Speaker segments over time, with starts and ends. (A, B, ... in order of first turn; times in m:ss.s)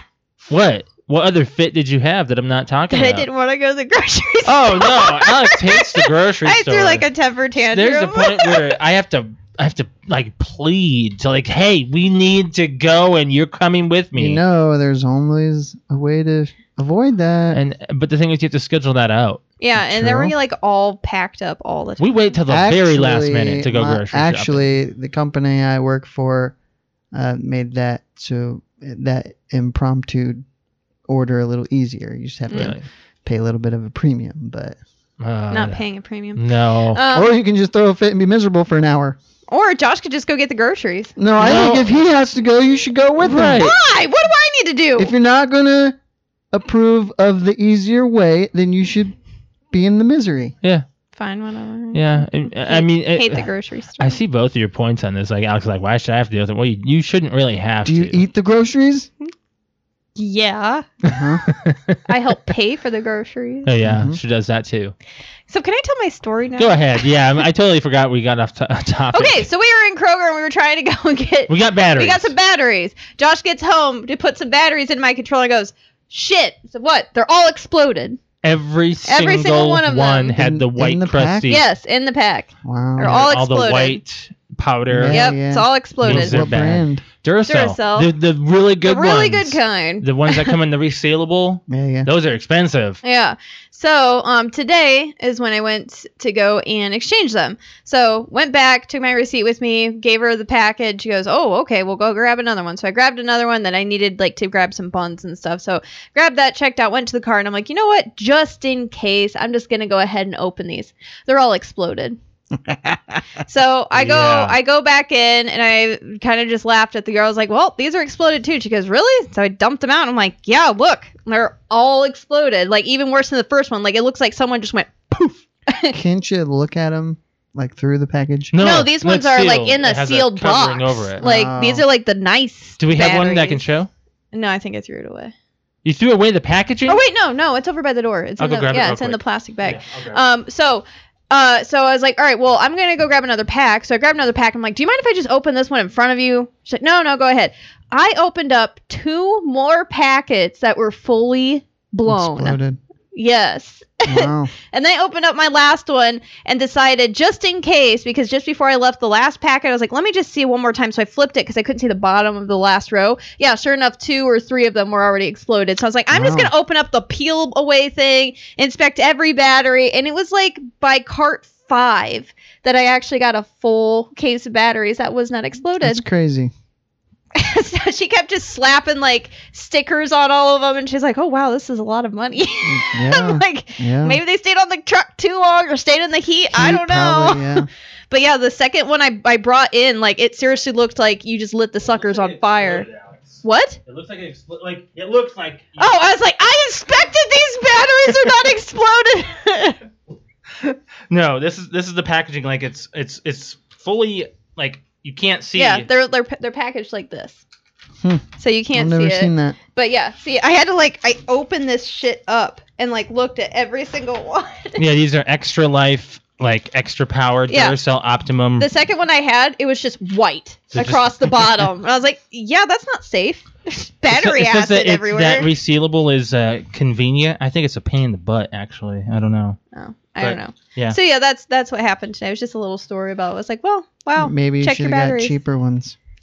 0:00.5-0:03.3 A
0:02.9-0:08.6 B
0:04.5-0:07.1 A
0:07.7-0:14.4 A
0:14.2-0:17.6 C
0:17.5-0:19.4 A
0:19.6-0:22.1 B
0:19.9-0:20.3 C
0:22.0-0:24.6 A
0:22.5-0:26.6 C
0:27.1-0:30.4 C
0:31.1-0:34.8 C
0:32.5-0:32.9 A
0:35.2-0:37.0 A
0:35.5-0:37.3 B
0:37.1-0:39.2 C
0:39.5-0:41.2 B
0:41.2-0:43.7 C
0:41.4-0:42.0 A
0:43.2-0:43.8 A
0:43.5-0:45.1 B
0:45.0-0:46.0 C
0:46.5-0:49.2 C
0:49.7-0:50.6 C
0:51.2-0:54.2 B
0:51.9-0:53.5 A
0:54.0-0:58.2 A
0:57.8-0:59.1 C
1:00.2-1:00.9 B
1:01.0-1:02.0 A
1:01.1-1:01.4 C
1:02.1-1:03.7 B
1:03.7-1:04.9 A
1:03.8-1:04.2 C
1:05.5-1:07.1 B
1:06.6-1:09.5 A
1:09.1-1:18.2 B
1:11.5-1:12.3 A
1:18.4-1:21.6 A
1:19.1-1:20.4 B
1:20.4-1:21.5 C
1:21.5-1:24.0 B
1:22.6-1:23.2 C
1:23.0-1:25.3 A
1:24.9-1:27.0 C
1:25.1-1:26.5 B
1:26.0-1:33.0 A
1:27.5-1:28.1 B
1:28.8-1:30.6 B
1:31.7-1:32.1 C
1:33.0-1:52.2 B
1:52.7-1:53.2 C
1:53.4-2:06.0 B
1:53.9-1:54.6 A
2:05.9-2:08.5 C
2:08.5-2:11.2 A
2:08.6-2:13.7 B
2:11.2-2:11.8 C
2:12.8-2:13.9 A
2:14.3-2:15.3 B
2:15.8-2:17.0 A
2:16.9-2:32.6 B
2:18.4-2:20.2 A
2:32.1-2:32.8 C
2:33.1-2:56.0 B
2:34.1-2:34.5 C
2:46.1-2:46.5 C
2:55.8-2:56.5 C
2:57.4-3:12.9 B
3:02.6-3:04.2 C
3:06.5-3:07.7 C
3:11.9-3:16.0 A
3:13.4-3:13.8 B
3:15.8-3:19.8 B
3:21.1-3:25.9 A
3:25.6-3:27.4 B
3:28.0-3:29.6 C
3:28.4-3:34.8 B
3:34.8-3:38.7 A
3:37.5-3:37.8 B
3:38.6-3:45.5 B
3:40.7-3:41.6 A
3:44.1-3:49.6 A
3:49.7-3:55.4 B
3:50.2-3:51.0 A
3:54.2-3:56.0 C